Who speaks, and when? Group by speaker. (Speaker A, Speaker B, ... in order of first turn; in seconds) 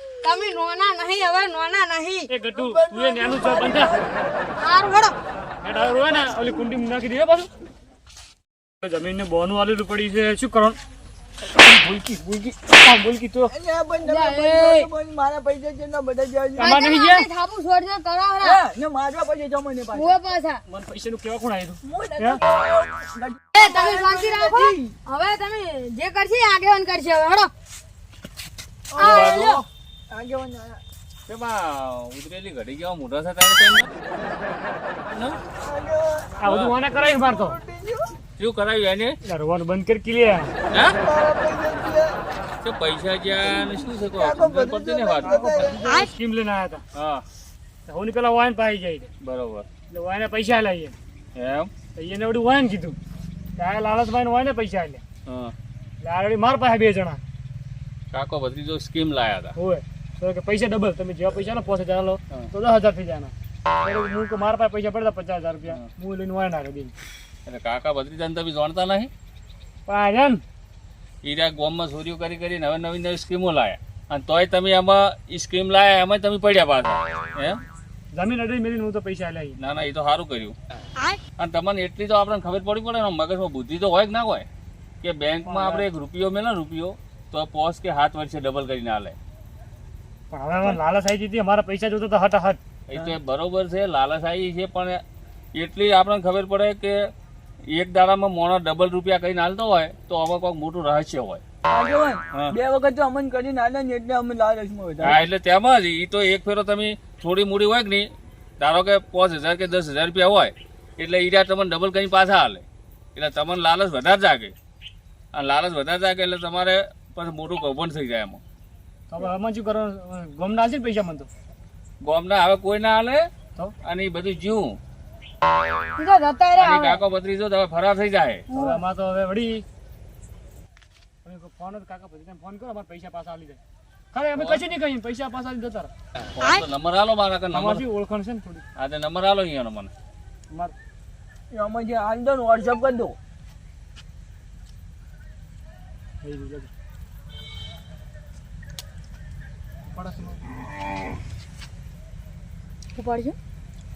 Speaker A: 0.2-2.3, 4.6-5.1, 14.0-14.9, 16.6-18.6, 19.9-20.6, 23.5-27.5, 29.0-29.6, 126.0-127.0, 128.5-128.8, 152.9-153.3
Speaker B: 2.3-3.9, 5.6-7.5, 8.8-10.8, 11.7-13.5, 16.6-17.3, 20.7-22.4, 36.4-37.6, 39.2-40.5, 45.2-46.8, 47.9-49.1, 49.9-50.9, 51.9-53.0, 53.5-55.0, 56.0-57.2, 59.5-63.3, 63.8-66.9, 69.9-70.4, 78.1-79.6, 85.4-85.8, 90.3-92.6, 119.1-121.3, 128.5-129.6, 131.2-133.6, 134.1-135.9, 137.5-138.6, 140.5-140.7, 146.2-146.7, 149.9-150.5
Speaker C: 2.5-4.5, 13.5-16.8, 18.4-20.2, 21.8-24.9, 28.9-29.2, 30.1-30.8, 35.6-36.4, 36.9-38.1, 40.9-42.2, 44.1-45.8, 101.7-105.2, 141.5-143.2
Speaker D: 29.0-29.6, 31.3-33.9, 36.4-36.8, 38.4-39.1, 40.7-41.0, 42.6-45.4, 46.9-47.2, 49.2-49.6, 51.3-51.7, 55.2-55.5, 58.1-59.5, 67.5-69.1, 71.2-77.6, 79.6-80.5, 81.4-84.5, 85.0-89.2, 92.9-95.0, 95.5-96.9, 97.7-101.4, 105.0-108.1, 108.6-112.6, 113.2-114.5, 115.3-118.4, 122.0-123.3, 123.8-124.8, 126.6-128.4, 134.3-134.6, 136.3-137.8, 138.8-139.9